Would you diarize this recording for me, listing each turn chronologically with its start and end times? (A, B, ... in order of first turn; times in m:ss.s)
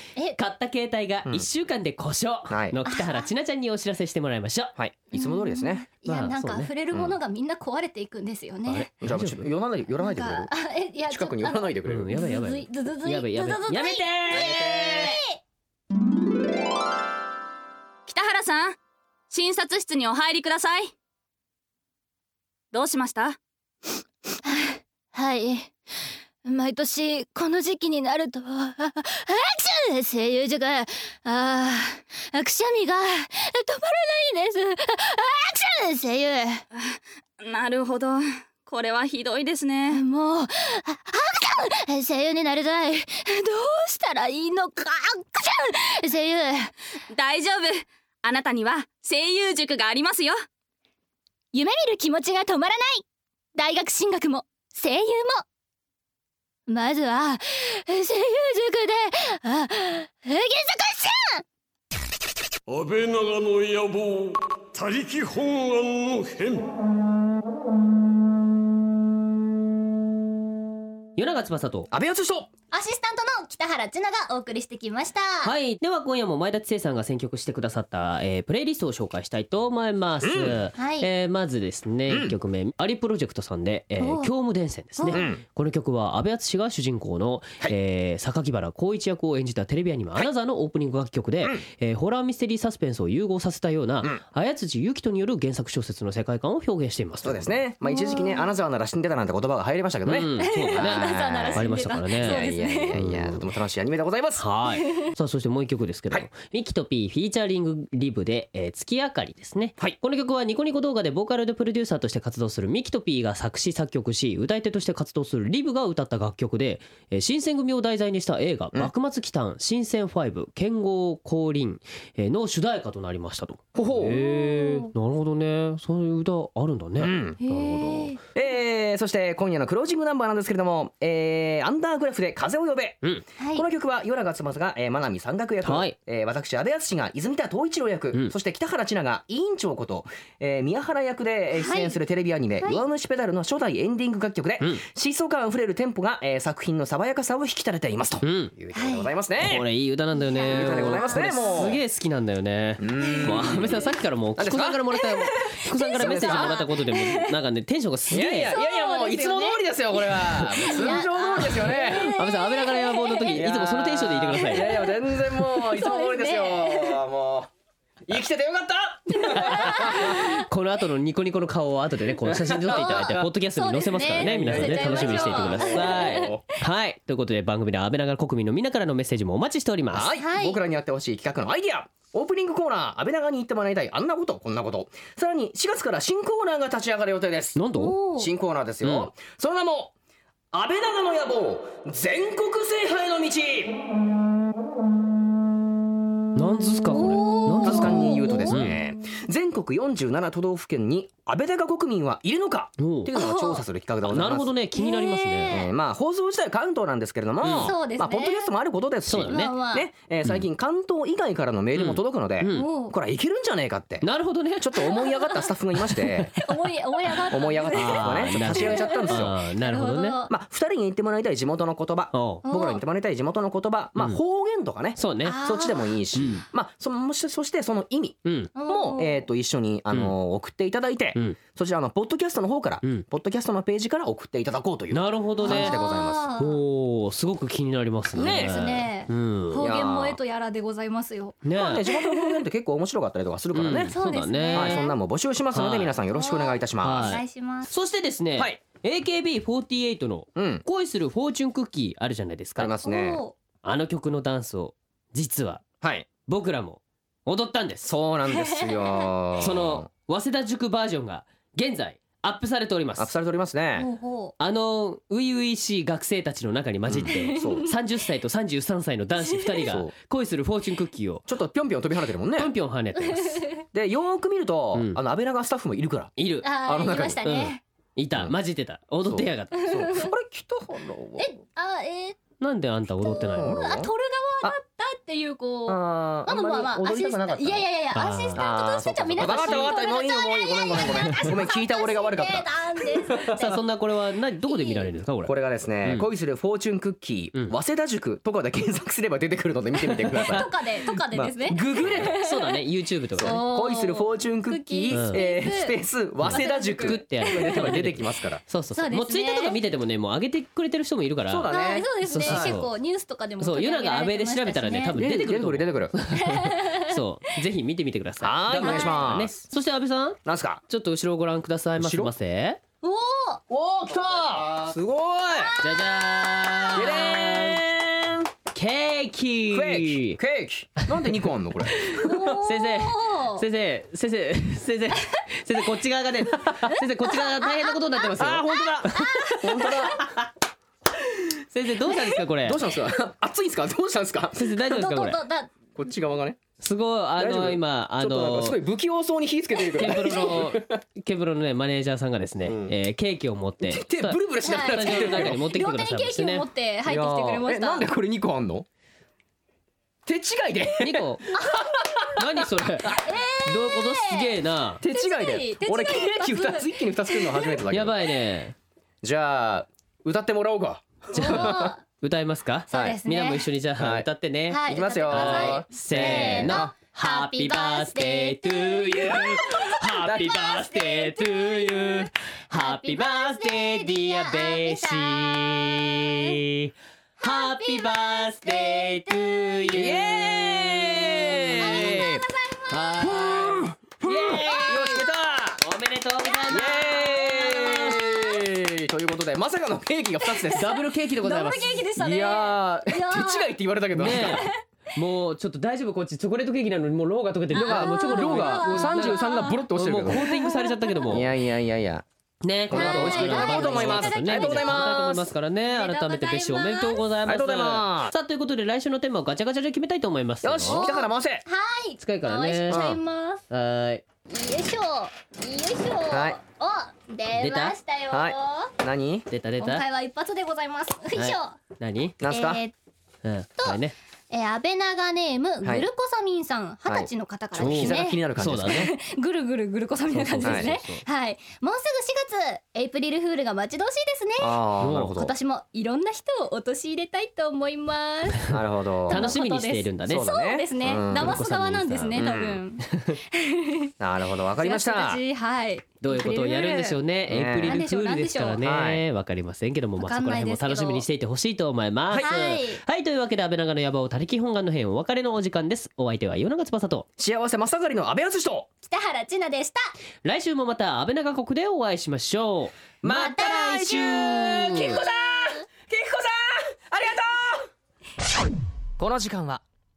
0:00.4-0:04.8 A
0:02.5-0:02.8 B
0:02.9-0:03.3 C
0:04.8-0:05.8 B
0:05.1-0:08.9 C
0:06.0-0:06.7 A
0:06.9-0:07.2 B
0:08.7-0:09.5 A
0:09.0-0:10.5 B
0:10.0-0:15.4 C
0:11.1-0:12.1 B
0:11.9-0:15.2 A
0:14.3-0:15.0 B
0:18.1-0:18.8 D
0:19.3-0:20.9 D
0:22.7-0:23.4 D
0:24.4-0:25.7 C
0:26.4-0:36.6 C
0:36.7-0:40.0 D
0:39.9-0:46.7 C
0:47.1-0:50.4 D
0:51.5-0:53.0 C
0:53.5-0:55.4 C
0:56.7-1:01.4 C
1:02.7-1:06.7 E
1:11.2-1:11.9 A
1:11.9-1:12.5 B
1:12.7-1:15.5 C
1:15.4-1:37.6 A
1:20.2-1:20.6 B
1:20.8-1:21.1 C
1:22.1-1:22.4 B
1:24.0-1:24.3 C
1:25.0-1:25.2 C
1:25.1-1:25.4 B
1:37.2-1:44.4 B
1:37.8-1:38.5 C
1:40.0-1:43.4 A
1:40.4-1:43.1 C
1:44.4-2:08.2 A
2:03.7-2:04.2 B
2:04.4-2:04.9 C
2:07.0-2:07.4 B
2:07.4-2:08.2 C
2:08.3-2:29.7 B
2:13.4-2:13.6 C
2:15.6-2:15.9 A
2:21.6-2:22.0 C
2:24.6-2:24.8 A
2:28.2-2:28.5 A
2:28.7-2:29.1 C
2:29.4-2:38.5 A
2:30.1-2:31.7 C
2:30.4-2:31.8 B
2:32.8-2:33.8 B
2:33.0-2:33.8 C
2:34.4-2:35.0 B
2:35.4-2:37.3 C
2:35.9-2:36.6 B
2:38.1-2:42.1 B
2:38.5-2:43.4 C
2:41.9-2:44.8 A
2:43.3-2:47.5 B
2:44.4-2:47.0 C
2:48.0-2:50.2 B
2:49.2-2:50.3 C
2:49.3-3:00.1 A
2:52.2-2:53.2 B
2:52.7-2:56.4 C
2:54.2-2:56.4 B
2:59.9-3:07.6 B
3:00.2-3:00.6 C
3:07.6-3:07.9 A
3:07.7-3:08.3 C
3:08.2-3:09.9 B
3:08.8-3:09.1 A
3:10.5-3:13.8 B
3:16.4-3:18.8 A
3:16.9-3:18.8 C
3:17.6-3:24.5 B
3:22.8-3:23.1 A
3:23.2-3:23.6 C
3:24.0-3:25.6 A
3:24.7-3:25.7 C
3:25.5-3:34.1 B
3:27.4-3:27.7 A
3:27.6-3:28.5 C
3:29.0-3:29.5 A
3:29.2-3:29.9 C
3:31.7-3:32.7 A
3:32.5-3:32.9 C
3:34.0-3:34.8 A
3:34.6-3:36.4 B
3:34.9-3:35.5 C
3:36.4-3:40.3 C
3:37.3-3:39.4 B
3:37.7-3:40.2 A
3:40.3-3:56.2 B
3:42.1-3:42.4 A
3:42.4-3:42.8 C
3:45.0-3:45.4 A
3:45.2-3:46.0 C
3:46.1-3:46.4 A
3:48.2-3:48.5 A
3:48.6-3:49.2 C
3:54.9-3:55.8 A
3:55.4-3:56.6 C
3:56.4-3:59.7 A
3:58.1-3:58.8 B
3:58.2-4:02.4 C
3:59.6-4:00.2 B
4:01.4-4:01.8 A
4:01.6-4:03.9 B
4:03.5-4:04.8 A
4:03.9-4:05.0 C
4:04.5-4:07.2 B
4:05.5-4:06.0 A
4:06.1-4:07.7 C
4:06.8-4:12.7 A
4:08.4-4:08.6 B
4:10.4-4:10.6 B
4:12.6-4:13.2 B
4:12.8-4:13.3 C
4:13.6-4:15.6 A
4:15.8-4:16.1 B
4:16.2-4:17.9 A
4:17.8-4:19.9 B
4:18.3-4:19.1 C
4:19.4-4:23.1 A
4:23.0-4:23.9 B
4:23.8-4:24.3 C
4:24.4-4:31.3 A
4:26.8-4:27.7 B
4:27.1-4:27.7 C
4:29.6-4:29.9 B
4:31.3-4:32.5 B
4:32.4-4:33.5 A
4:33.0-4:33.6 C
4:33.7-4:37.2 B
4:34.7-4:35.0 A
4:36.2-4:36.5 A
4:36.4-4:37.6 C
4:37.2-4:39.9 A
4:39.0-4:41.3 B
4:39.6-4:40.1 C
4:41.2-4:42.2 C
4:42.4-4:43.6 A
4:43.0-4:53.6 C
4:43.3-4:43.9 B
4:45.7-4:47.7 B
4:47.9-4:48.5 A
4:48.3-4:53.6 B
4:49.2-4:49.7 A
4:53.4-4:56.1 A
4:54.5-4:54.9 C
4:55.2-5:00.5 B
5:00.1-5:00.4 A
5:00.1-5:02.6 C
5:01.1-5:02.2 B
5:01.9-5:03.4 A
5:03.2-5:08.4 B
5:03.2-5:07.6 C
5:04.9-5:05.2 A
5:06.2-5:11.5 A
5:08.7-5:09.6 C
5:11.2-5:12.6 B
5:11.5-5:14.9 C
5:12.0-5:12.7 A
5:13.4-5:22.6 A
5:14.9-5:15.9 B
5:16.2-5:17.0 C
5:18.2-5:19.3 B
5:18.6-5:19.1 C
5:20.2-5:20.6 B
5:21.8-5:22.1 B
5:22.8-5:23.4 C
5:23.5-5:25.5 B
5:25.3-5:27.2 C
5:25.6-5:27.6 A
5:26.7-5:28.3 B
5:28.5-5:30.2 A
5:29.5-5:32.4 B
5:31.8-5:40.3 A
5:31.9-5:33.4 C
5:37.0-5:39.9 C
5:38.2-5:40.1 B
5:41.5-5:42.6 A
5:42.4-5:44.5 B
5:44.3-5:45.2 A
5:44.6-5:45.5 C
5:45.8-5:46.4 B
5:46.6-5:48.6 A
5:47.2-5:50.8 B
5:49.7-5:56.4 A
5:52.4-5:52.7 B
5:53.6-5:55.6 B
5:54.4-5:57.9 C
5:56.8-5:58.6 B
6:00.0-6:02.3 B
6:00.8-6:01.2 A
6:01.3-6:01.7 C
6:02.2-6:04.8 A
6:03.0-6:07.6 C
6:04.8-6:08.0 B
6:07.7-6:08.5 A
6:09.0-6:11.7 B
6:11.1-6:26.7 A
6:11.1-6:11.8 C
6:12.7-6:13.0 B
6:12.7-6:13.5 C
6:13.8-6:14.1 B
6:14.5-6:25.6 C
6:14.6-6:16.7 B
6:20.0-6:20.5 B
6:27.2-6:29.9 A
6:27.2-6:33.6 C
6:29.7-6:32.2 B
6:31.2-6:31.8 A
6:32.7-6:34.9 A
6:33.1-6:35.6 B
6:34.3-6:35.0 C
6:35.6-6:37.8 A
6:36.2-6:38.5 C
6:36.5-6:40.8 B
6:40.2-6:44.6 C
6:40.5-6:41.8 A
6:42.0-6:44.5 B
6:44.0-6:51.3 A
6:47.5-6:51.2 C
6:47.5-6:50.3 B
6:51.1-6:52.0 B
6:52.4-7:00.9 A
6:52.6-6:55.3 B
6:52.7-6:55.1 C
6:55.6-6:57.1 C
6:57.2-6:58.1 B
7:00.4-7:01.4 B
7:00.6-7:03.4 C
7:02.0-7:02.9 A
7:02.7-7:03.0 B
7:03.5-7:04.0 A
7:04.3-7:08.7 C
7:06.1-7:06.4 B
7:07.3-7:07.8 A
7:08.1-7:09.3 B
7:09.3-7:09.8 A
7:09.6-7:11.6 C
7:11.2-7:12.2 A
7:12.2-7:12.6 B
7:12.3-7:12.7 C
7:13.2-7:13.9 A
7:14.3-7:24.6 C
7:15.6-7:15.9 B
7:16.9-7:18.9 B
7:17.6-7:18.9 A
7:20.1-7:21.0 A
7:20.4-7:20.7 B
7:24.4-7:25.3 B
7:24.8-7:25.2 A
7:25.2-7:28.6 C
7:28.5-7:29.4 B
7:29.1-7:33.9 C
7:29.1-7:30.3 A
7:30.1-7:31.4 B
7:31.0-7:32.2 A
7:32.1-7:32.6 B
7:34.0-7:35.2 B
7:34.6-7:37.0 C
7:36.0-7:47.0 A
7:37.3-7:37.8 B
7:37.6-7:38.6 C
7:38.6-7:39.0 B
7:40.0-7:41.0 C
7:42.2-7:42.8 C
7:47.2-7:48.7 B
7:48.8-7:49.9 C
7:50.2-7:52.7 A
7:53.0-7:57.7 B
7:53.0-7:55.4 C
7:59.0-7:59.6 B